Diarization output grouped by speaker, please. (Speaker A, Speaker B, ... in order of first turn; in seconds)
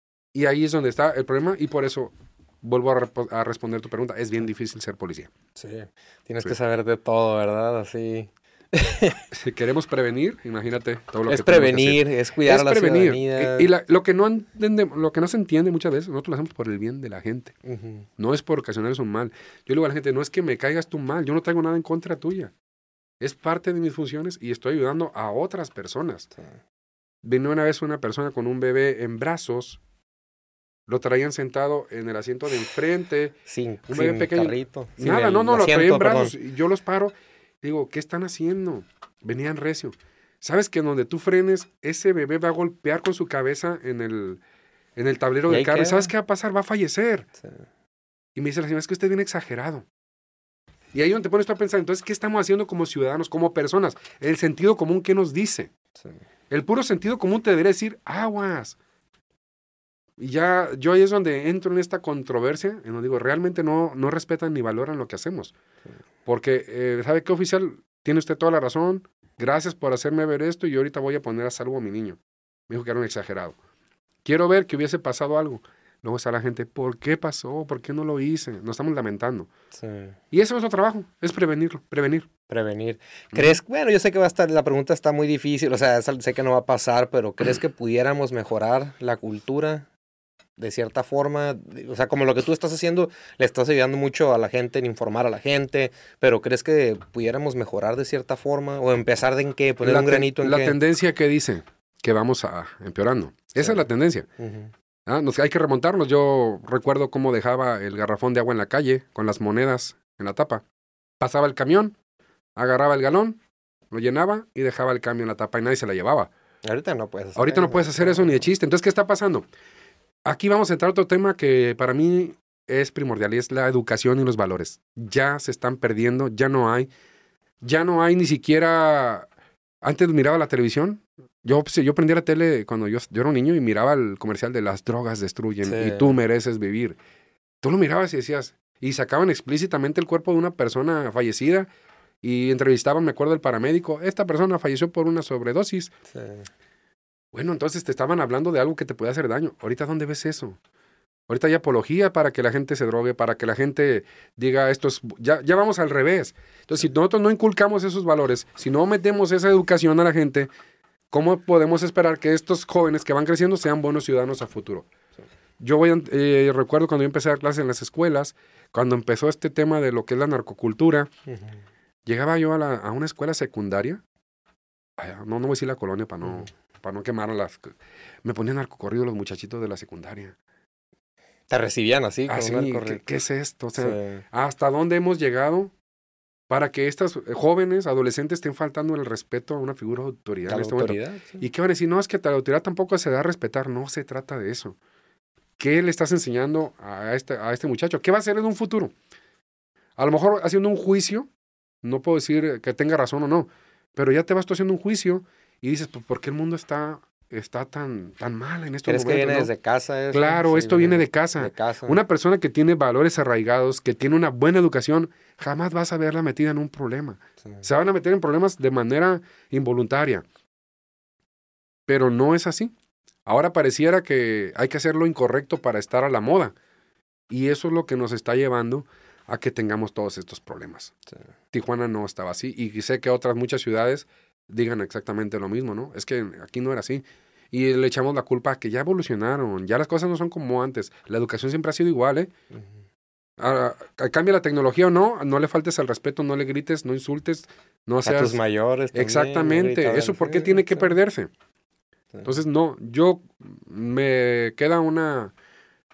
Speaker A: 0.3-5.3, 9.3-17.5, 18.2-22.5, 23.2-26.3, 27.2-29.8, 30.9-33.4, 33.9-44.4, 45.0-47.3, 48.3-49.9, 50.9-55.7, 56.5-58.8, 60.2-65.5, 66.2-73.5, 74.2-79.5, 80.3-82.3, 83.3-83.6, 99.8-104.3, 105.0-110.6, 111.2-112.0, 112.5-113.4, 113.9-116.3, 117.3-119.5, 120.2-126.9, 127.6-129.3, 129.8-137.0, 137.6-141.7, 142.2-145.9, 147.3-150.6, 151.3-160.5, 161.1-164.9, 165.6-171.1, 172.1-174.0, 175.0-177.7, 178.2-180.3, 182.3-185.7, 186.5-194.8, 195.6-198.9, 200.0-201.3, 201.8-209.5, 210.1-220.2, 221.9-222.7, 223.2-226.5, 227.3-230.9, 231.5-242.3, 243.4-248.4, 248.9-251.3, 252.2-255.3
Speaker B: 5.6-9.2, 11.3-13.7, 17.6-18.1, 33.5-36.3, 45.5-46.1, 79.8-80.2, 82.5-89.9, 90.6-100.8, 104.4-104.7, 116.6-118.4, 135.6-136.2, 146.1-146.5, 181.5-183.0, 183.8-184.2, 190.4-191.4, 208.9-212.0, 248.0-250.9